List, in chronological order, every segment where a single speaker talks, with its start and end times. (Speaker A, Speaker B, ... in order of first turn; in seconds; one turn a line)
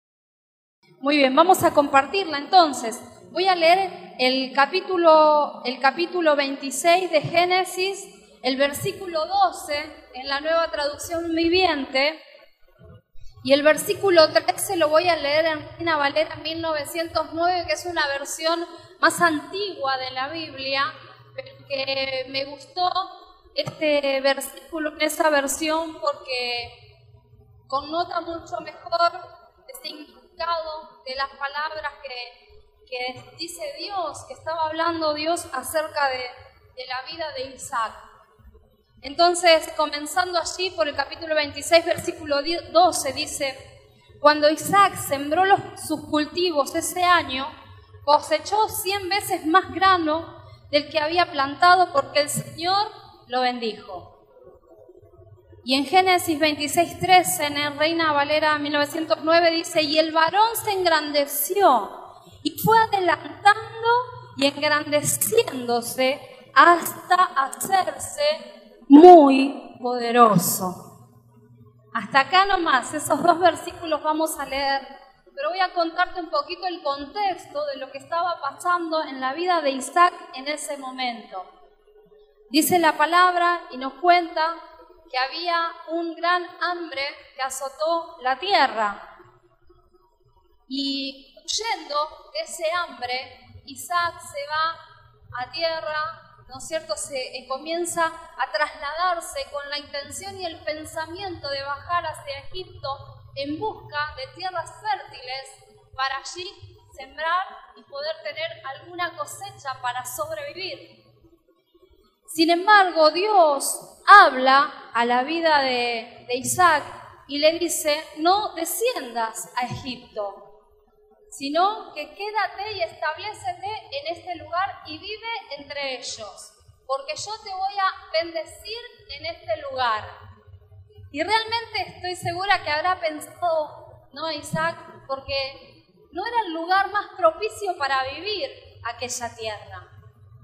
Speaker A: 1.0-12.2
Speaker A: 13.4-26.7
Speaker A: 27.7-38.0
Speaker A: 39.0-43.6
Speaker A: 44.2-54.1
Speaker A: 55.6-70.8
Speaker A: 71.9-81.5
Speaker A: 82.5-89.0
Speaker A: 90.7-94.8
Speaker A: 95.3-110.9
Speaker A: 112.2-120.4
Speaker A: 121.3-130.1
Speaker A: 131.1-139.9